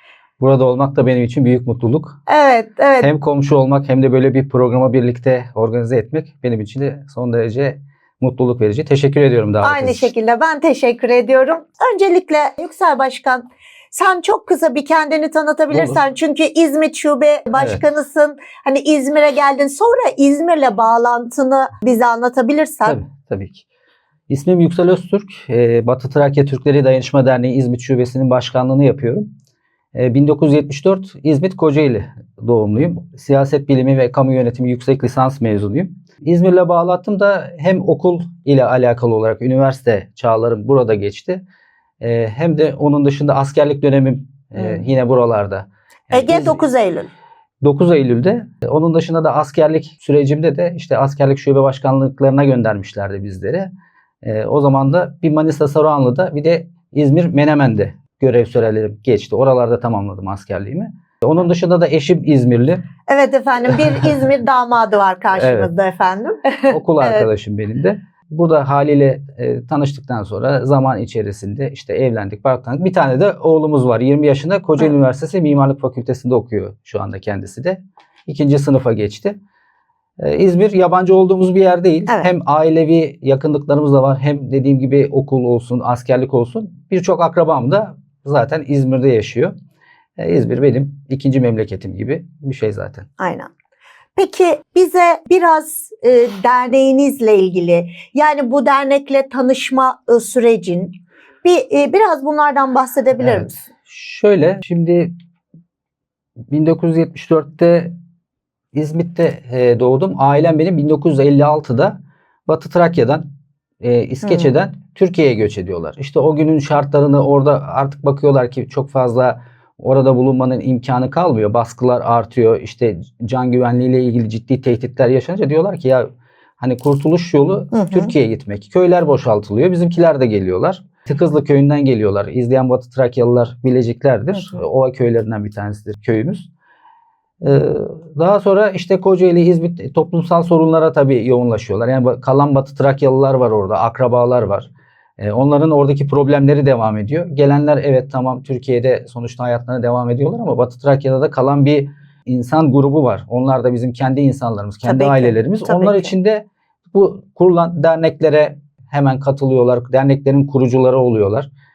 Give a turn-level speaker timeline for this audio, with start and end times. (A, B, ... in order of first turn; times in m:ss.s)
0:00.4-0:02.2 A
0:02.3-0:03.1 B
0:03.0-0:10.1 A
0:09.6-0:23.0 B
0:15.7-0:16.0 A
0:17.5-0:17.8 A
0:22.8-0:23.6 A
0:24.3-0:29.3 A
0:29.9-0:41.4 A
0:42.0-0:46.6 A
0:46.1-0:47.1 B
0:47.6-0:53.7 A
0:54.2-1:02.8 A
1:03.1-1:07.3 B
1:05.3-1:05.7 A
1:06.7-1:19.4 A
1:20.2-1:29.5 A
1:30.2-1:33.1 A
1:33.2-1:33.5 B
1:34.2-1:43.6 B
1:43.2-1:45.1 A
1:46.5-1:47.9 A
1:48.7-1:53.2 A
1:53.8-2:06.1 A
1:54.2-1:54.5 B
2:06.6-2:16.5 A
2:07.7-2:08.1 B
2:17.4-2:41.5 A
2:34.8-2:36.1 B